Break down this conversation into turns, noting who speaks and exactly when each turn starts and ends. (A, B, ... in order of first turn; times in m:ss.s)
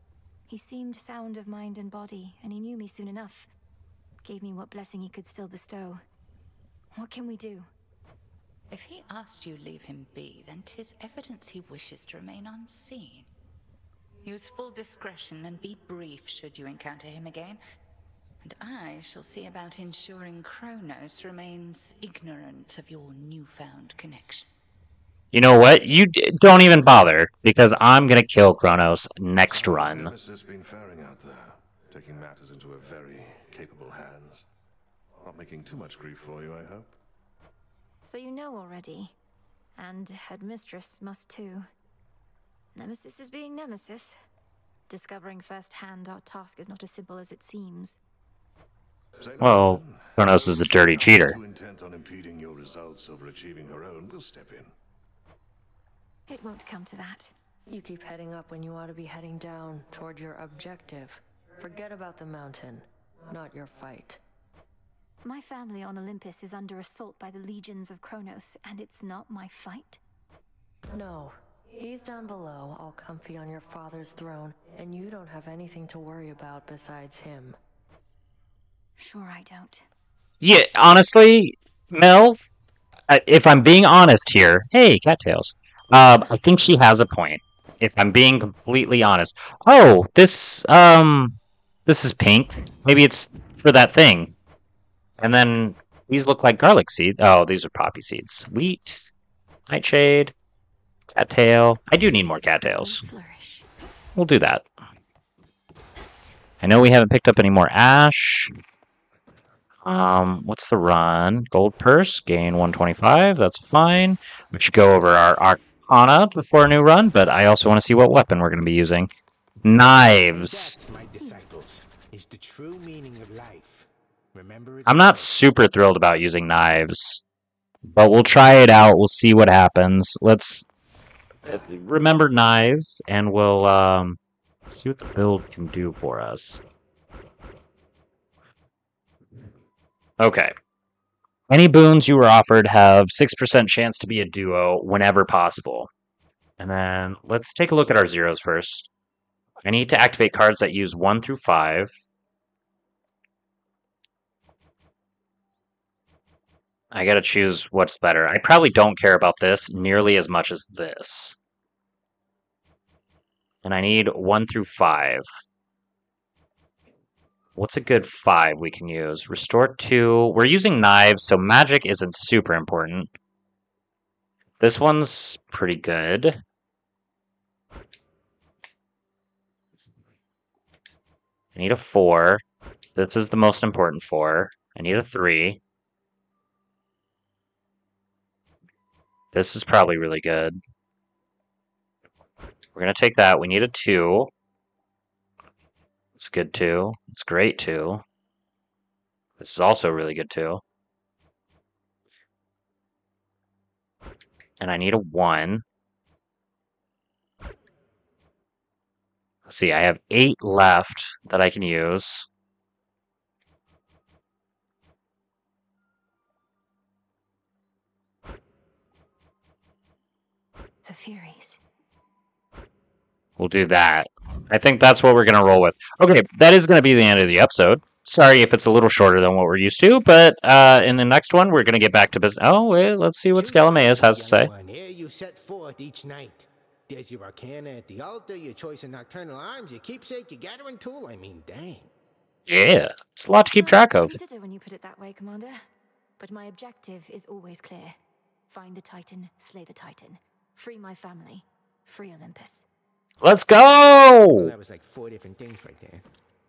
0:00.5-0:03.5 A
0:04.2-0:06.0 A
0:06.9-0:07.7 A
0:08.7-0:13.3 B
0:14.2-0:17.6 B
0:18.4-0:24.5 B
0:25.3-0:30.1 C
0:29.5-0:34.4 D
0:35.2-0:36.9 D
0:38.0-0:39.1 A
0:39.8-0:41.7 A
0:42.7-0:44.2 A
0:44.9-0:48.0 A
0:49.2-0:54.7 D
0:49.4-0:51.4 C
0:56.3-0:57.3 A
0:57.7-1:04.2 E
1:05.2-1:10.0 A
1:10.9-1:17.6 E
1:19.0-1:19.8 A
1:20.4-1:22.4 C
1:23.1-1:34.3 C
1:35.2-1:39.1 C
1:39.7-1:40.3 C
1:41.1-1:43.0 C
1:42.6-1:43.6 A
1:44.1-1:44.6 C
1:46.6-1:48.5 C
1:49.8-1:59.1 C
1:59.6-2:00.8 C
2:00.3-2:05.3 F
2:04.8-2:07.2 C
2:07.9-2:10.7 C
2:11.4-2:14.2 C
2:14.7-2:16.6 C
2:20.2-2:20.5 C
2:21.5-2:25.9 C
2:26.6-2:28.9 C
2:29.6-2:31.9 C
2:36.9-2:41.4 C
2:43.6-2:45.2 C
2:47.6-2:53.1 C
2:54.6-2:56.4 C
3:01.5-3:02.4 C
3:03.0-3:05.6 C
3:09.3-3:10.6 C
3:12.8-3:14.3 C
3:16.2-3:18.0 C
3:19.4-3:20.6 C
3:24.6-3:25.6 C
3:29.5-3:32.3 C
3:40.8-3:41.6 A
3:43.4-3:54.5 C
3:53.3-4:01.9 F
4:02.5-4:04.2 C
4:03.6-4:05.6 A
4:06.2-4:12.6 A
4:13.2-4:14.5 C
4:14.3-4:16.0 F